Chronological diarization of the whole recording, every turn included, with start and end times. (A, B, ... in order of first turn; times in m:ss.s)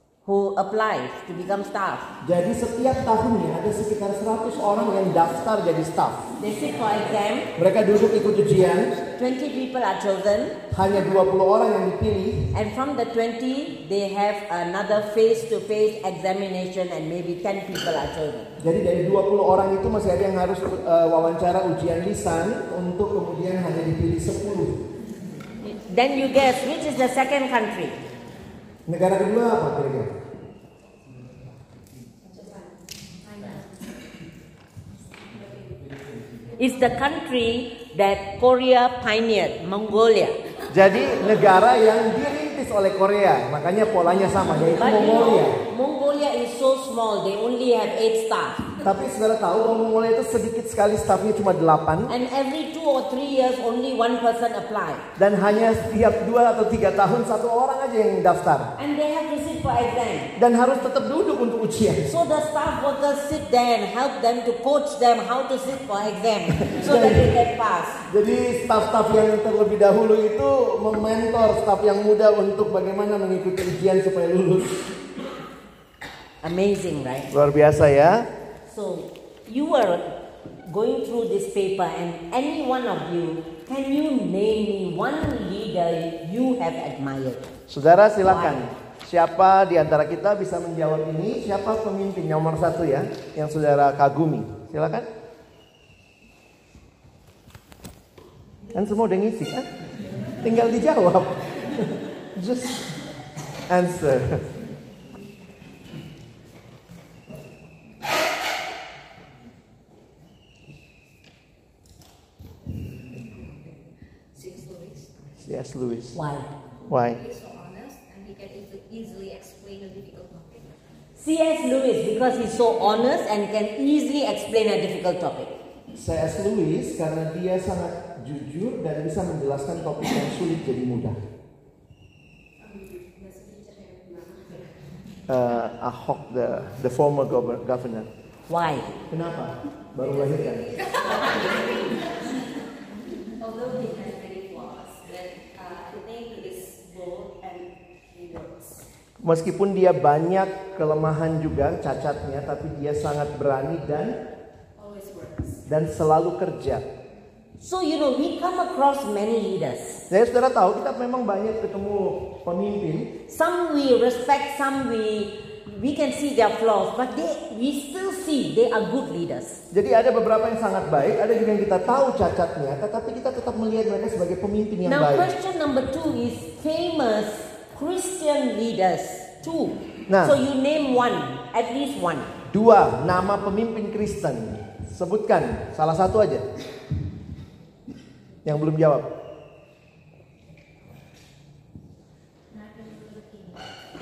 0:00.2-0:02.1 A
0:02.2-0:06.3 B
0:06.4-0:07.5 A
0:07.5-0:09.0 B
0:09.1-0:10.6 A
0:10.7-0:12.5 B
0:12.5-0:18.5 A
0:18.6-0:24.9 B
0:25.6-0:28.0 A
0:28.9-0:30.1 B
0:32.2-0:33.9 C
0:35.3-0:35.8 C
0:36.6-0:40.4 A
0:40.7-0:45.6 B
0:44.7-0:48.7 A
0:48.8-0:52.1 B
0:52.1-0:55.1 A
0:55.2-0:58.7 B
0:58.8-1:00.3 A
1:00.4-1:02.1 B
1:02.1-1:08.0 A
1:06.6-1:07.4 B
1:08.1-1:15.0 B
1:16.4-1:17.3 A
1:17.3-1:18.3 B
1:18.6-1:27.5 A
1:27.7-1:35.1 B
1:28.2-1:28.6 A
1:38.7-1:39.7 B
1:40.4-1:42.9 B
1:43.7-1:44.6 B
1:54.3-1:55.4 C
1:55.4-1:56.2 B
1:56.1-1:56.5 A
1:56.8-1:57.2 B
1:57.0-2:00.7 C
2:01.2-2:05.5 A
2:05.9-2:11.2 B
2:12.6-2:14.7 C
2:15.3-2:18.1 B
2:18.5-2:19.0 A
2:19.1-2:20.6 B
2:20.0-2:22.6 C
2:23.4-2:28.8 C
2:29.2-2:34.2 B
2:34.8-2:35.6 C
2:35.7-2:36.8 B
2:37.6-2:40.0 A
2:40.1-2:43.1 B
2:43.3-2:49.6 A
2:49.7-2:55.3 B
2:54.8-3:02.3 A
3:00.1-3:00.4 B
3:02.5-3:06.4 B
3:08.4-3:09.1 B
3:12.5-3:13.6 C